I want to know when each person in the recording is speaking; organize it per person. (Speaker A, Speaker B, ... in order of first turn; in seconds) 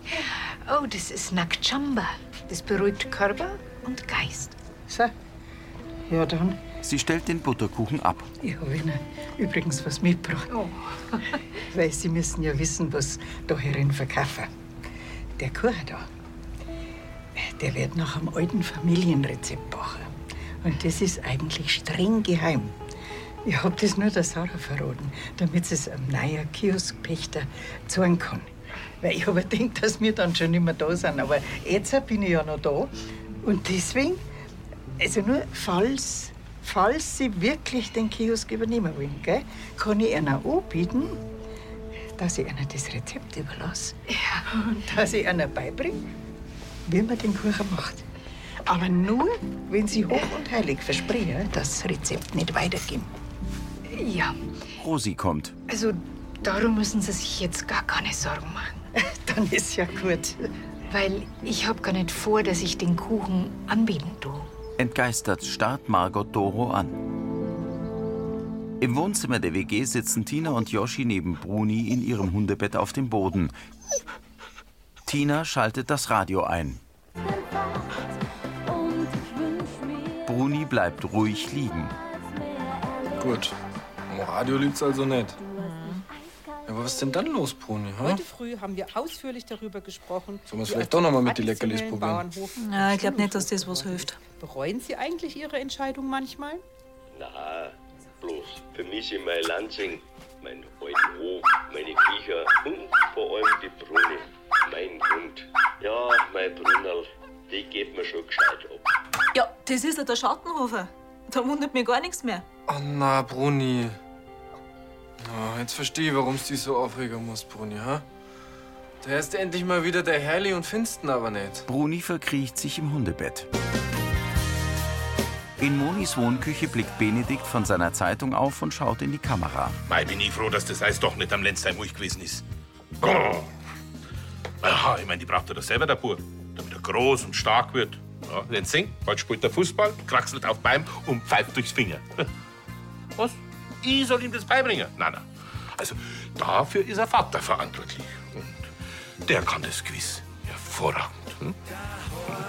Speaker A: 0.1-4.5, 53.9-54.4, 55.7-58.9, 60.9-64.5
Speaker B: 4.9-5.1, 6.1-6.6, 8.4-10.6, 11.6-14.5, 15.4-16.1, 17.4-22.8, 23.4-34.2, 35.0-41.2, 42.2-46.0, 46.9-48.0, 48.6-53.1, 59.0-60.4
Speaker C: 6.8-8.3, 54.8-55.5, 64.8-67.0, 68.8-73.5, 75.1-76.8, 80.2-81.9, 121.7-123.5, 125.6-129.8
Speaker D: 83.1-83.6, 84.1-85.5, 86.7-88.2, 90.5-92.3, 112.7-114.0, 115.2-118.0, 119.0-121.7
Speaker E: 88.0-96.6
Speaker F: 92.6-94.2, 109.3-112.4
Speaker G: 97.1-108.9
Speaker H: 129.9-132.4, 133.0-133.5, 134.6-142.3, 143.2-148.7, 149.2-151.6